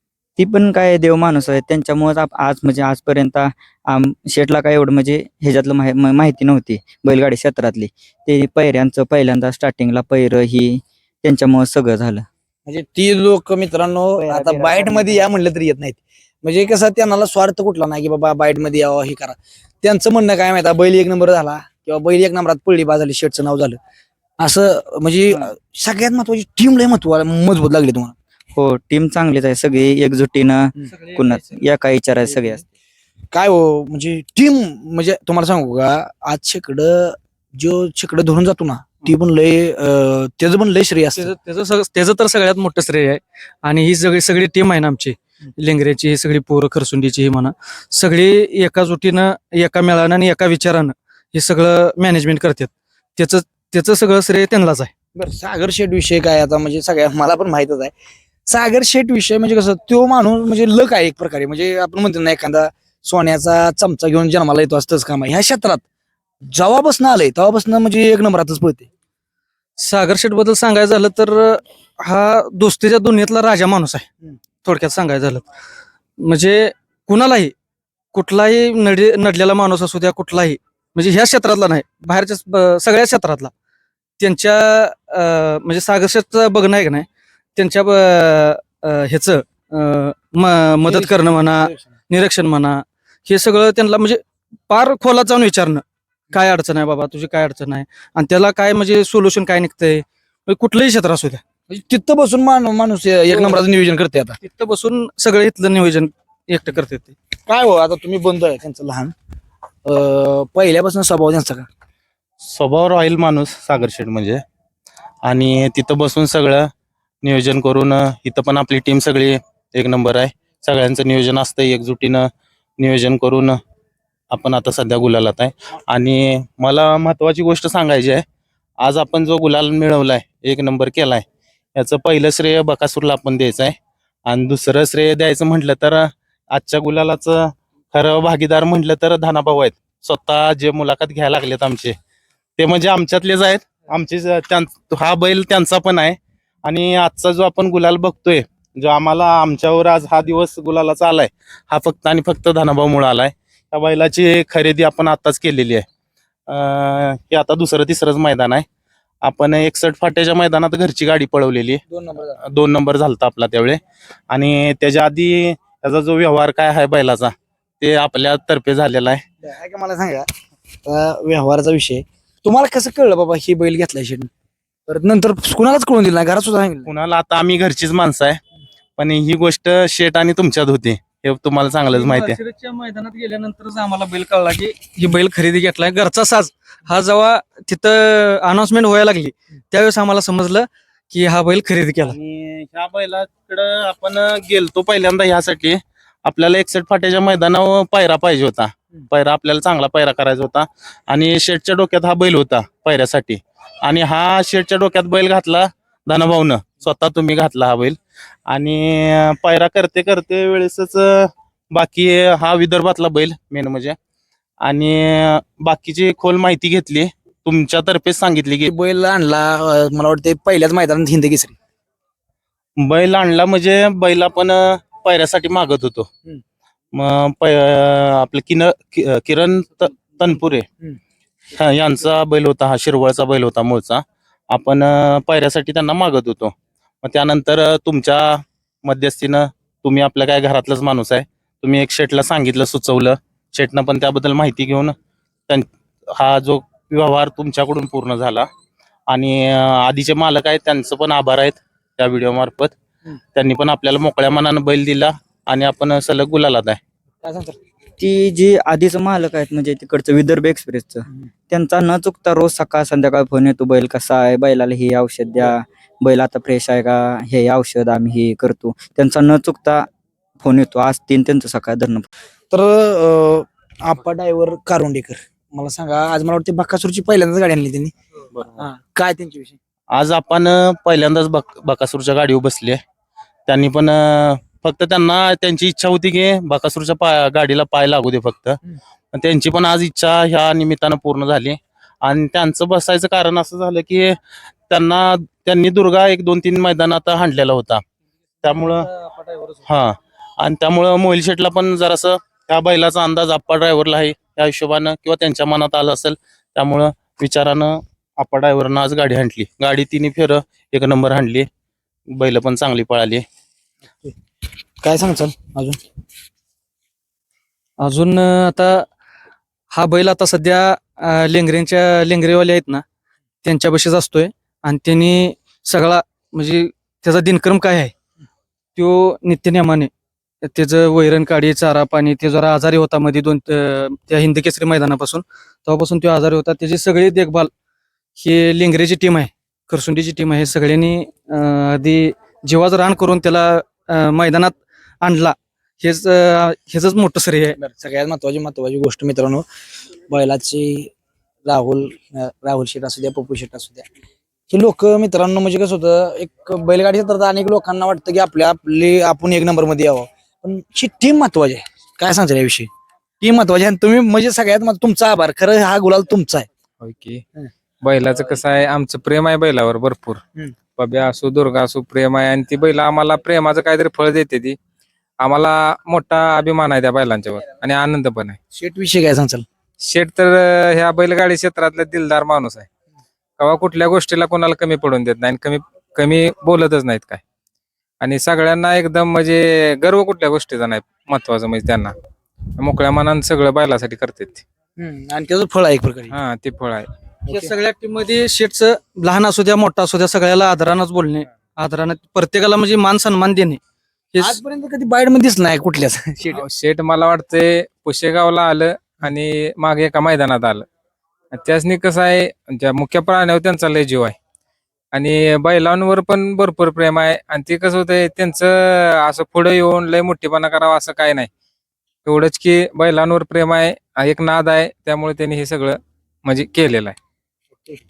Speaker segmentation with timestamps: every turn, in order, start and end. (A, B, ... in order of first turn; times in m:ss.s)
0:00.4-0:12.2 A
0:12.6-0:23.8 B
0:14.2-0:15.3 A
0:24.4-0:28.1 B
0:28.5-0:32.6 A
0:31.0-0:31.4 C
0:33.3-0:41.3 B
0:41.2-0:52.6 C
0:53.2-0:54.9 C
0:55.1-0:57.9 B
0:58.5-1:05.8 B
1:06.5-1:08.9 B
1:09.8-1:14.0 C
1:14.6-1:15.4 C
1:16.2-1:17.5 C
1:18.1-1:23.5 C
1:24.2-1:27.0 C
1:27.6-1:35.8 C
1:30.9-1:31.9 B
1:36.3-1:41.4 C
1:41.7-1:44.4 B
1:43.3-1:43.6 C
1:44.4-1:47.1 C
1:47.4-1:49.1 B
1:49.8-1:51.7 B
1:52.4-1:54.4 D
1:55.2-1:56.7 D
1:57.2-2:02.3 D
2:02.8-2:03.5 D
2:04.3-2:08.2 D
2:08.8-2:11.2 D
2:11.8-2:13.7 D
2:14.3-2:21.9 D
2:22.6-2:35.8 D
2:36.5-2:38.6 D
2:39.2-2:41.8 D
2:41.9-2:42.4 B
2:42.4-2:43.8 D
2:44.3-2:49.2 D
2:49.4-2:50.3 B
2:50.8-2:54.3 B
2:54.9-2:56.9 B
2:56.9-2:58.4 D
2:59.0-3:02.4 D
3:01.9-3:10.6 C
3:11.1-3:12.1 C
3:12.0-3:34.0 D
3:34.6-3:38.7 D
3:38.6-3:41.6 B
3:42.8-3:46.1 D
3:46.9-3:50.6 D
3:51.5-4:04.9 D
4:05.5-4:08.5 D
4:09.1-4:12.8 D
4:13.3-4:16.8 D
4:17.2-4:17.6 B
4:18.0-4:29.8 A
4:30.4-4:32.0 A
4:32.5-4:37.9 B
4:38.6-4:39.6 B
4:39.9-4:42.8 D
4:43.5-4:48.6 D
4:49.1-4:54.2 D
4:54.7-4:57.8 D
4:58.4-4:58.9 D
4:58.5-4:59.6 C
4:59.7-5:11.5 D
5:12.1-5:13.2 D
5:14.8-5:15.8 B
5:17.8-5:18.8 C
5:19.7-5:22.8 C
5:23.4-5:27.9 C
5:28.8-5:29.9 C
5:30.4-5:37.5 C
5:38.2-5:47.6 C
5:47.6-5:49.4 B
5:50.1-5:50.9 B
5:51.4-5:53.8 B
5:54.5-6:02.7 B
6:03.2-6:06.5 B
6:06.8-6:07.2 E
6:07.8-6:10.2 E
6:10.8-6:14.6 E
6:15.2-6:18.4 E
6:18.5-6:19.4 B
6:19.8-6:22.7 E
6:23.4-6:27.2 E
6:28.0-6:31.9 E
6:32.6-6:34.4 E
6:34.8-6:36.1 B
6:36.1-6:36.9 E
6:37.3-6:37.5 B
6:37.3-6:43.6 C
6:44.2-6:46.4 B
6:46.3-6:50.6 E
6:51.3-6:54.1 E
6:54.9-7:01.3 E
7:02.0-7:06.9 E